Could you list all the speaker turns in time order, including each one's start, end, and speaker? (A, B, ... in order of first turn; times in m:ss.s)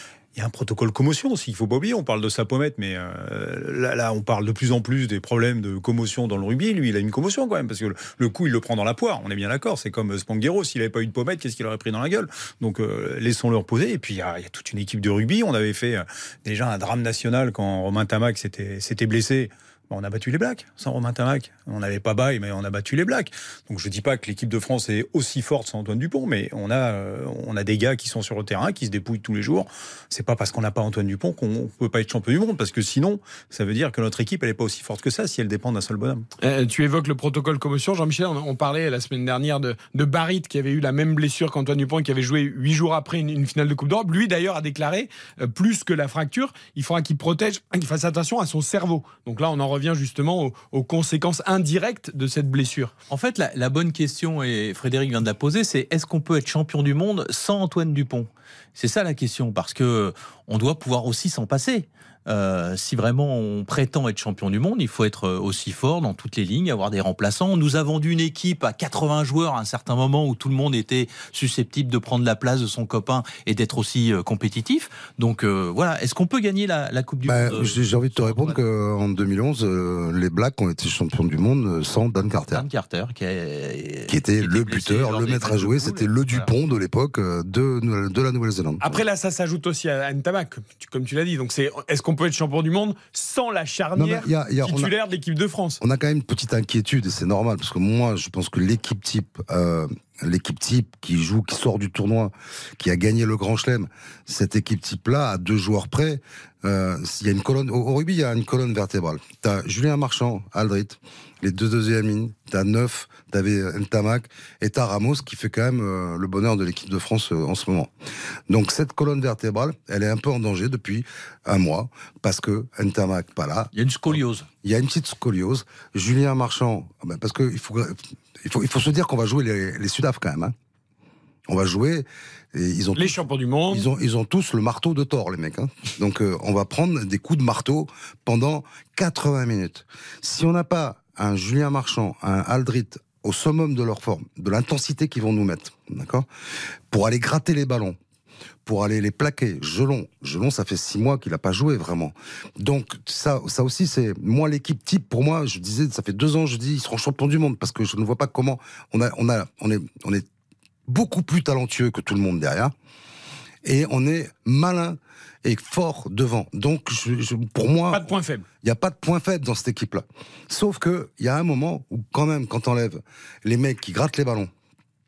0:00.3-0:36.3 A
0:36.4-0:52.9 B
0:53.1-1:18.6 C
1:17.2-1:22.6 D
1:22.5-1:26.5 C
1:24.1-1:29.0 D
1:28.8-1:35.8 B
1:33.9-1:34.9 D
1:35.8-1:57.9 D
1:58.5-2:10.5 D
2:03.7-2:04.5 C
2:11.5-2:13.2 D
2:13.0-2:13.9 B
2:13.7-2:26.3 D
2:26.9-2:28.0 D
2:28.6-2:40.2 D
2:40.9-2:42.7 D
2:43.6-2:48.1 D
2:47.9-2:48.4 B
2:48.6-2:54.5 D